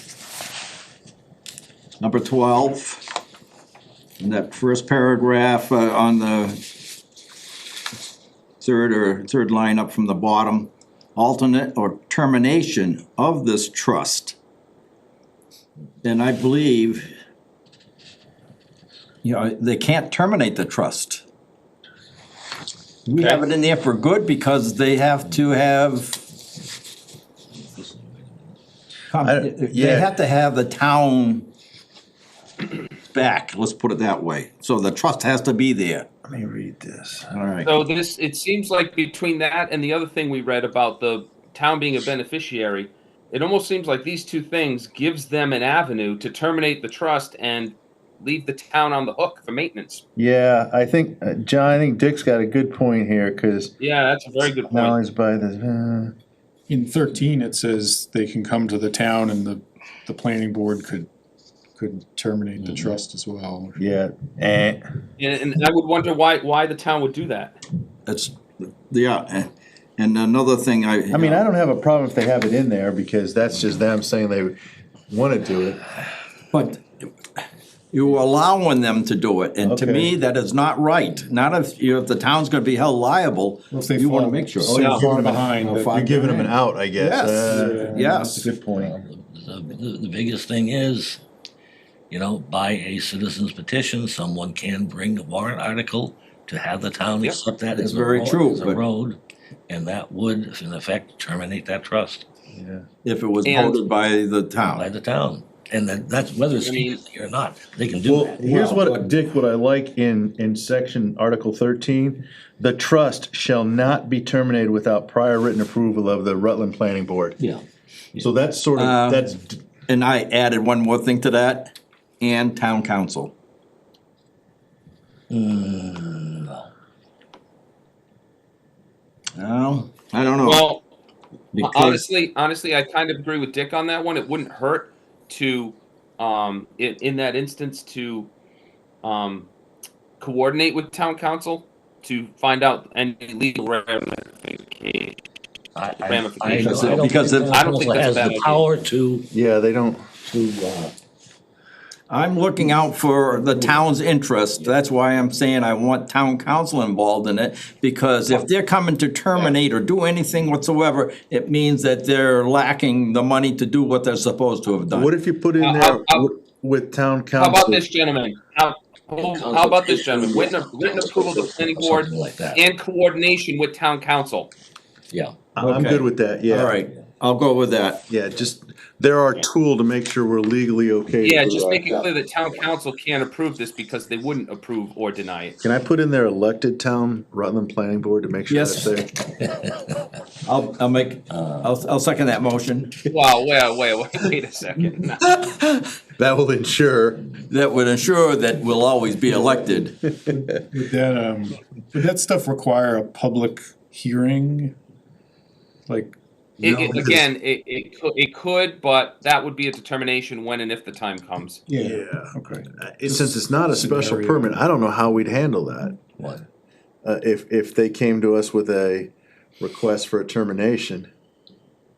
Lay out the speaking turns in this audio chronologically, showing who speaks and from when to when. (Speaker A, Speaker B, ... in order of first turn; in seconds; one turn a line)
Speaker A: 2.0-3.1
Speaker A: 4.2-6.6
Speaker A: 8.6-14.4
Speaker A: 16.0-17.1
Speaker A: 19.2-21.2
Speaker A: 23.1-26.2
Speaker B: 27.6-28.3
Speaker A: 29.1-31.5
Speaker C: 29.2-30.1
Speaker A: 33.1-36.1
Speaker C: 36.3-37.3
Speaker A: 37.3-37.7
Speaker D: 37.6-50.0
Speaker C: 50.1-53.7
Speaker D: 53.8-55.0
Speaker C: 54.7-56.1
Speaker E: 56.7-61.1
Speaker E: 61.8-63.8
Speaker B: 62.6-62.9
Speaker C: 63.8-64.8
Speaker D: 65.2-67.6
Speaker A: 68.0-71.4
Speaker C: 71.1-74.6
Speaker C: 75.1-75.8
Speaker A: 76.5-76.8
Speaker A: 77.9-84.8
Speaker C: 79.6-80.1
Speaker E: 83.7-86.4
Speaker C: 84.6-88.9
Speaker D: 84.8-85.0
Speaker A: 85.7-88.5
Speaker E: 87.4-88.9
Speaker B: 88.9-91.2
Speaker B: 92.1-102.2
Speaker A: 97.8-98.8
Speaker C: 102.5-102.8
Speaker A: 103.0-104.9
Speaker D: 103.4-103.8
Speaker B: 104.6-108.9
Speaker D: 106.6-107.0
Speaker C: 108.0-117.4
Speaker A: 108.6-109.1
Speaker C: 118.2-119.6
Speaker A: 118.7-119.3
Speaker A: 119.9-123.3
Speaker B: 125.3-126.7
Speaker A: 129.4-130.6
Speaker D: 130.4-130.8
Speaker A: 131.5-132.0
Speaker D: 131.6-138.3
Speaker D: 139.0-139.5
Speaker D: 140.2-145.2
Speaker B: 145.8-149.3
Speaker D: 146.0-148.7
Speaker A: 146.5-147.7
Speaker C: 149.3-150.1
Speaker B: 150.3-150.9
Speaker A: 152.1-165.1
Speaker C: 164.9-167.8
Speaker D: 165.6-166.3
Speaker D: 167.3-174.5
Speaker B: 169.2-172.6
Speaker B: 175.1-175.4
Speaker C: 175.5-176.8
Speaker A: 175.6-178.0
Speaker C: 178.1-182.1
Speaker D: 181.2-185.6
Speaker C: 185.6-189.1
Speaker A: 188.5-188.9
Speaker A: 190.4-193.0
Speaker B: 191.3-191.7
Speaker D: 193.1-195.2
Speaker C: 195.2-197.3
Speaker A: 197.5-200.0
Speaker E: 200.3-204.7
Speaker E: 205.9-206.2
Speaker D: 206.6-211.6
Speaker A: 206.6-207.2
Speaker C: 206.9-207.2
Speaker E: 211.7-212.0
Speaker C: 211.8-216.0
Speaker E: 213.0-214.6
Speaker C: 217.0-221.1